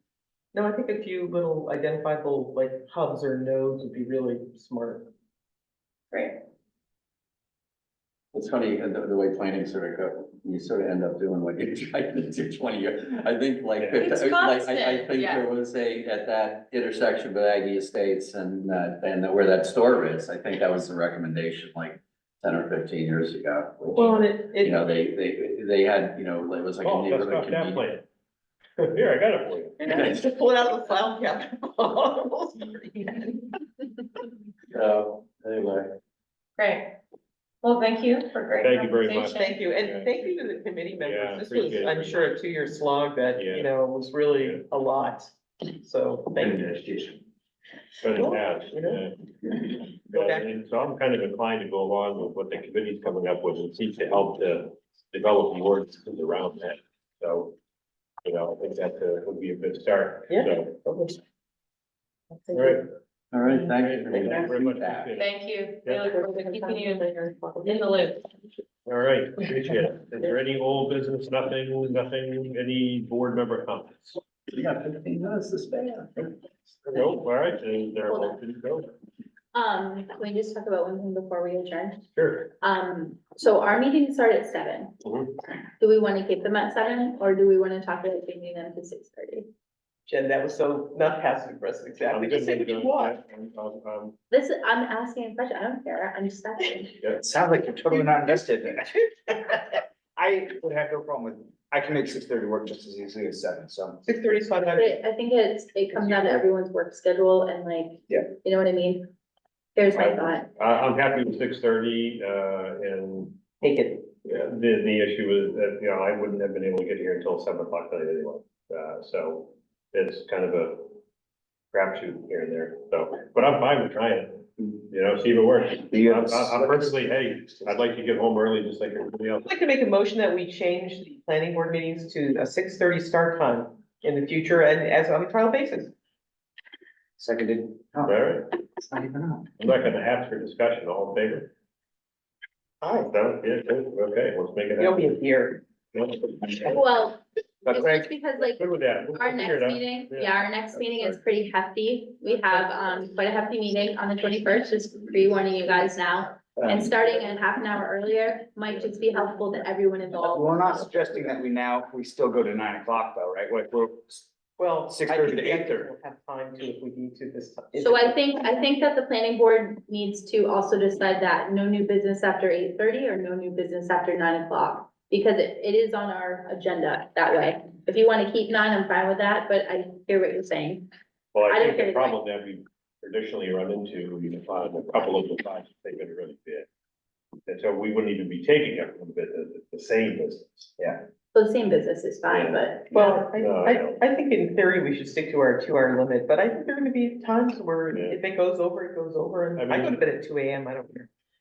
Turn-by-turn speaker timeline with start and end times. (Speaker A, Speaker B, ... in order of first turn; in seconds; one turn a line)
Speaker A: 0.5-5.1
Speaker B: 8.3-27.8
Speaker C: 13.8-14.1
Speaker D: 14.0-14.5
Speaker E: 14.1-15.4
Speaker A: 23.9-24.9
Speaker C: 26.8-28.1
Speaker C: 28.8-29.8
Speaker A: 29.8-33.6
Speaker B: 29.9-30.2
Speaker B: 34.7-36.0
Speaker D: 36.6-36.8
Speaker E: 37.6-39.6
Speaker D: 37.7-39.2
Speaker C: 38.6-40.4
Speaker A: 39.1-47.2
Speaker C: 41.0-42.4
Speaker C: 43.4-43.8
Speaker C: 44.4-44.6
Speaker C: 48.0-57.5
Speaker A: 48.1-49.0
Speaker A: 50.1-50.6
Speaker C: 58.2-60.8
Speaker A: 60.3-61.2
Speaker A: 62.3-62.9
Speaker C: 62.5-62.9
Speaker B: 63.3-65.2
Speaker C: 63.5-65.3
Speaker A: 64.1-64.4
Speaker E: 65.2-67.0
Speaker D: 65.2-65.4
Speaker C: 65.8-66.2
Speaker A: 65.9-68.2
Speaker E: 67.6-68.2
Speaker C: 68.9-74.2
Speaker B: 74.5-76.4
Speaker C: 76.9-78.9
Speaker D: 78.1-78.4
Speaker D: 79.5-85.0
Speaker C: 82.2-82.5
Speaker C: 85.0-85.3
Speaker D: 85.8-89.5
Speaker A: 90.1-93.2
Speaker C: 92.1-94.2
Speaker D: 94.3-97.0
Speaker F: 97.2-104.0
Speaker A: 104.1-105.0
Speaker D: 104.7-109.1
Speaker A: 105.9-106.5
Speaker D: 109.8-110.5
Speaker C: 110.0-113.4
Speaker A: 113.6-114.1
Speaker C: 114.2-121.0
Speaker C: 121.7-129.5
Speaker F: 125.8-127.7
Speaker A: 129.4-135.9
Speaker F: 137.2-138.2
Speaker C: 138.1-138.5
Speaker F: 138.8-139.5
Speaker C: 139.6-141.5
Speaker A: 142.8-143.2
Speaker C: 143.1-145.1
Speaker A: 144.8-145.6
Speaker C: 145.9-146.9
Speaker D: 146.7-160.9
Speaker F: 147.7-148.1
Speaker C: 148.4-150.3
Speaker F: 156.6-156.9
Speaker F: 160.2-164.3
Speaker A: 164.6-168.4
Speaker F: 164.9-165.9
Speaker D: 167.8-180.9
Speaker C: 181.3-186.7
Speaker D: 181.4-182.2
Speaker C: 187.5-190.8
Speaker D: 191.3-192.9
Speaker C: 192.3-194.0
Speaker A: 192.9-201.1
Speaker C: 197.9-198.2
Speaker C: 199.6-200.0